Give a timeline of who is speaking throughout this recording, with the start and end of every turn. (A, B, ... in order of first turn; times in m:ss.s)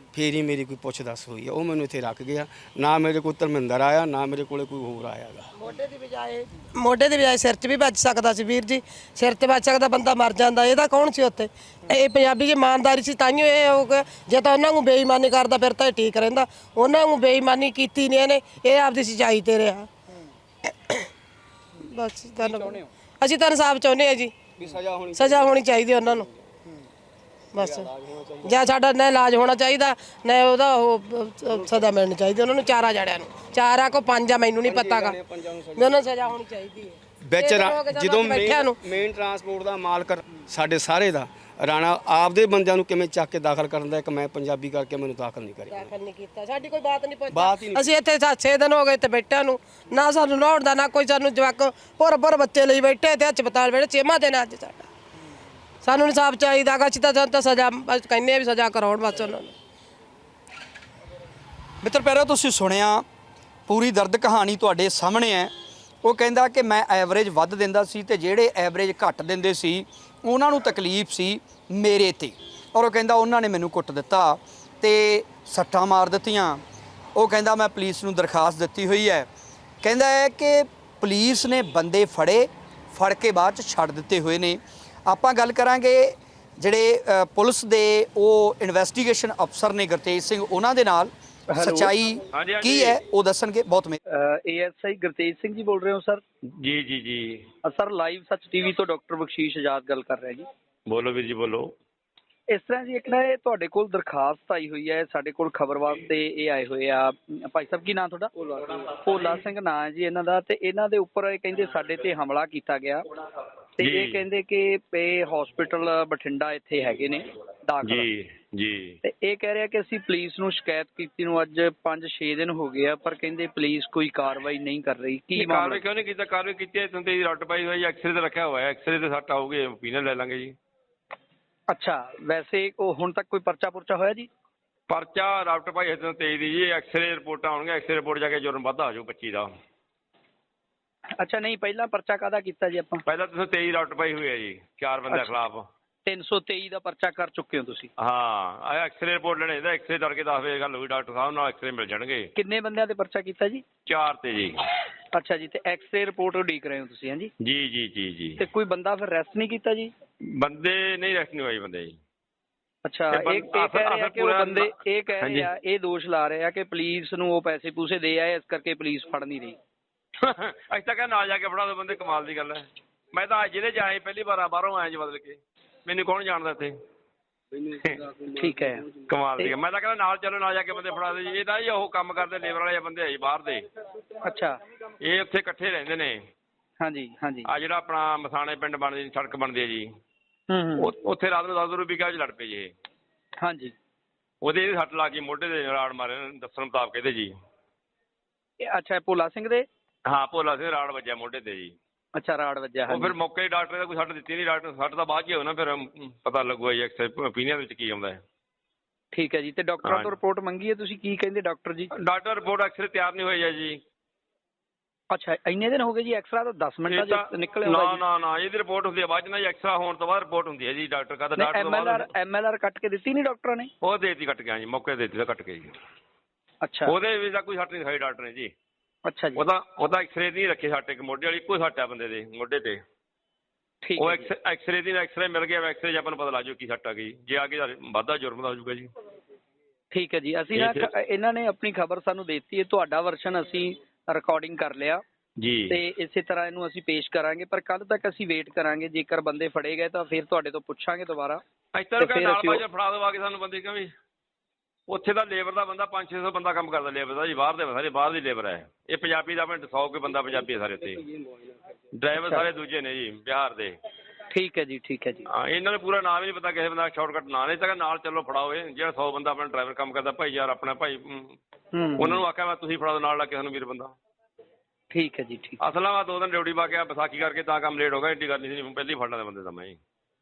0:00.1-0:05.5 A
0:05.6-0:19.9 B
0:21.8-0:24.4 B
0:22.4-0:22.9 C
0:24.5-0:26.5 A
0:25.1-0:26.2 B
0:27.5-0:27.9 B
0:27.6-0:28.6 A
0:28.4-0:35.2 B
0:31.5-0:31.9 A
0:34.6-0:36.1 A
0:35.7-0:38.8 B
0:37.2-0:45.9 A
0:45.7-0:54.9 B
0:47.3-0:47.9 A
0:55.8-0:59.5 B
1:01.8-1:03.0 D
1:03.7-1:05.5 D
1:06.0-1:16.6 D
1:17.1-1:19.3 D
1:19.8-1:34.0 D
1:31.5-1:31.9 C
1:32.3-1:33.0 E
1:34.1-1:36.2 C
1:36.6-1:37.5 E
1:37.6-1:40.5 C
1:40.9-1:41.7 E
1:42.5-1:53.0 C
1:53.8-1:58.1 C
1:53.8-1:54.2 E
1:57.8-1:59.0 E
1:59.0-2:05.8 C
2:05.4-2:10.6 E
2:11.7-2:14.3 C
2:14.9-2:19.6 E
2:21.2-2:23.0 C
2:23.0-2:25.7 E
2:25.1-2:25.4 C
2:26.0-2:27.9 C
2:28.0-2:32.3 E
2:32.4-2:33.6 C
2:33.8-2:34.7 E
2:35.1-2:37.3 C
2:37.4-2:38.4 E
2:38.4-2:39.9 C
2:40.2-2:42.0 E
2:42.8-2:49.6 C
2:43.2-2:44.6 E
2:50.2-2:56.8 E
2:57.5-2:59.0 A
2:58.3-2:58.8 C
2:59.1-3:03.6 E
3:04.2-3:04.5 C
3:05.0-3:06.2 E
3:06.8-3:07.5 C
3:07.4-3:09.9 E
3:10.5-3:10.9 C
3:10.8-3:12.7 E
3:13.4-3:13.7 C
3:14.4-3:17.4 E
3:18.6-3:19.6 C
3:20.0-3:21.8 E
3:22.1-3:23.2 C
3:22.9-3:28.2 E
3:29.1-3:31.9 C
3:29.8-3:30.1 E
3:32.0-3:33.8 E
3:35.1-3:38.0 C
3:36.9-3:41.9 E
3:41.4-3:43.7 C
3:43.8-3:45.8 E
3:46.6-3:47.0 C
3:46.8-3:48.5 E
3:49.0-3:49.4 C
3:49.4-3:52.8 E
3:53.8-3:54.3 C
3:54.0-3:58.9 E
3:59.9-4:05.0 C
4:00.6-4:00.9 E
4:05.4-4:05.7 E
4:05.7-4:11.4 C
4:11.7-4:13.9 E
4:12.0-4:12.6 C
4:14.9-4:21.0 E
4:20.8-4:21.5 A
4:21.9-4:23.8 E
4:22.2-4:22.5 C
4:24.3-4:25.2 C
4:25.3-4:31.4 E
4:31.7-4:32.2 C
4:32.0-4:34.0 E
4:34.9-4:35.6 C
4:35.6-4:39.8 E